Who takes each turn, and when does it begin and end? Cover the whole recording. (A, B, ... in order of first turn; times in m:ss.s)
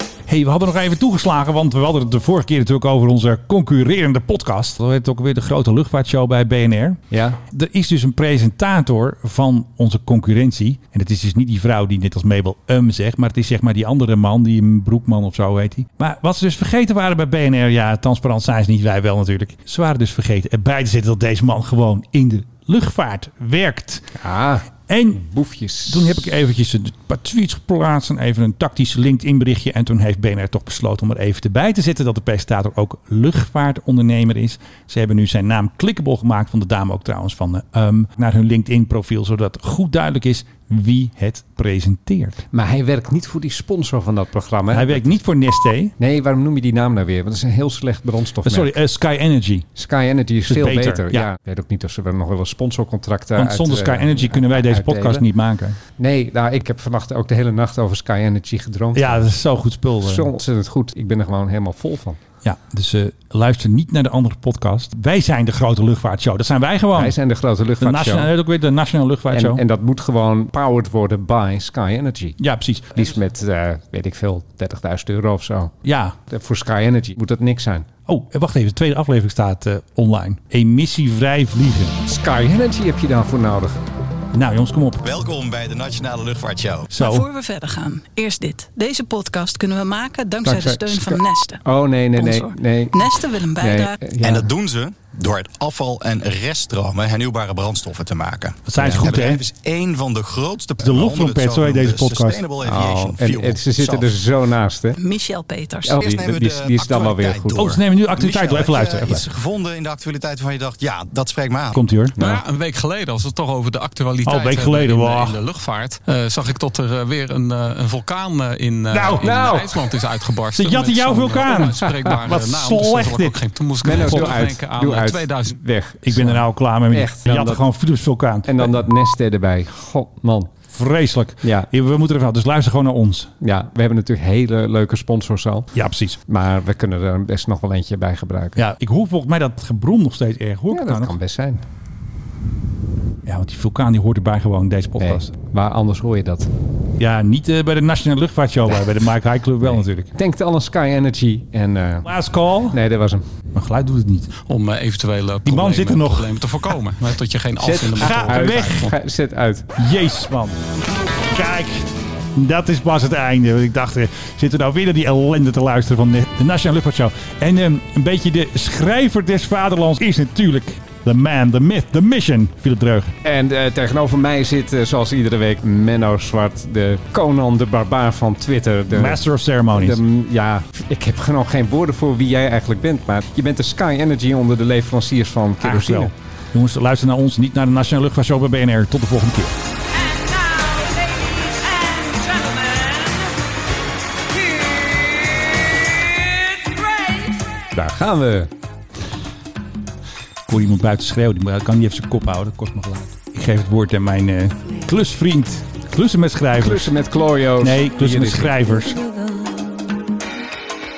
0:00.3-0:24.2 A
0:07.1-0:07.4 B
0:24.2-0:26.2 B
0:24.9-0:25.2 A
0:25.9-0:42.4 A
0:42.5-0:45.2 B
0:44.7-0:45.9 A
0:46.0-0:48.8 B
0:48.4-0:49.7 A
0:49.8-0:55.2 B
0:50.5-0:51.3 A
0:53.4-0:55.8 A
0:56.0-0:59.3 B
0:58.9-1:00.3 A
1:00.0-1:02.2 B
1:02.4-1:07.2 A
1:06.9-1:08.3 B
1:07.8-1:09.6 A
1:09.3-1:12.4 B
1:12.4-1:13.1 A
1:12.9-1:15.8 B
1:15.8-1:16.2 A
1:16.3-1:17.9 B
1:18.1-1:22.0 A
1:22.1-1:23.8 B
1:24.3-1:25.1 A
1:25.0-1:27.0 C
1:26.9-1:27.3 A
1:27.0-1:31.6 D
1:30.4-1:34.5 B
1:32.1-1:34.1 D
1:34.2-1:44.2 C
1:38.7-1:39.4 A
1:38.8-1:39.1 B
1:40.8-1:42.4 A
1:42.6-1:45.0 B
1:45.0-1:46.0 D
1:45.8-1:47.7 B
1:45.9-1:51.8 C
1:47.6-1:49.3 A
1:51.7-1:52.2 A
1:52.2-1:52.4 B
1:52.2-2:05.6 E
1:54.3-1:55.4 A
1:58.9-1:59.3 A
1:59.2-1:59.8 B
2:00.5-2:04.4 A
2:01.5-2:02.3 B
2:03.8-2:07.7 B
2:06.0-2:08.8 A
2:08.5-2:10.5 B
2:10.7-2:13.3 A
2:11.4-2:11.7 B
2:13.4-2:15.7 B
2:15.7-2:16.2 A
2:16.3-2:18.6 B
2:18.6-2:21.2 A
2:20.7-2:21.6 B
2:23.2-2:25.3 A
2:25.0-2:26.5 B
2:27.0-2:30.1 A
2:29.7-2:32.1 B
2:32.0-2:32.8 A
2:32.7-2:33.2 B
2:33.6-2:34.3 A
2:34.5-2:38.9 E
2:35.4-2:36.7 A
2:37.6-2:39.7 B
2:37.8-2:39.0 A
2:39.8-2:40.6 A
2:41.3-2:53.1 A
2:53.2-2:59.2 B
2:58.9-3:00.0 A
2:59.7-3:06.1 B
3:05.6-3:09.6 A
3:17.7-3:18.5 B
3:20.5-3:26.9 A
3:26.6-3:28.6 B
3:27.6-3:29.0 A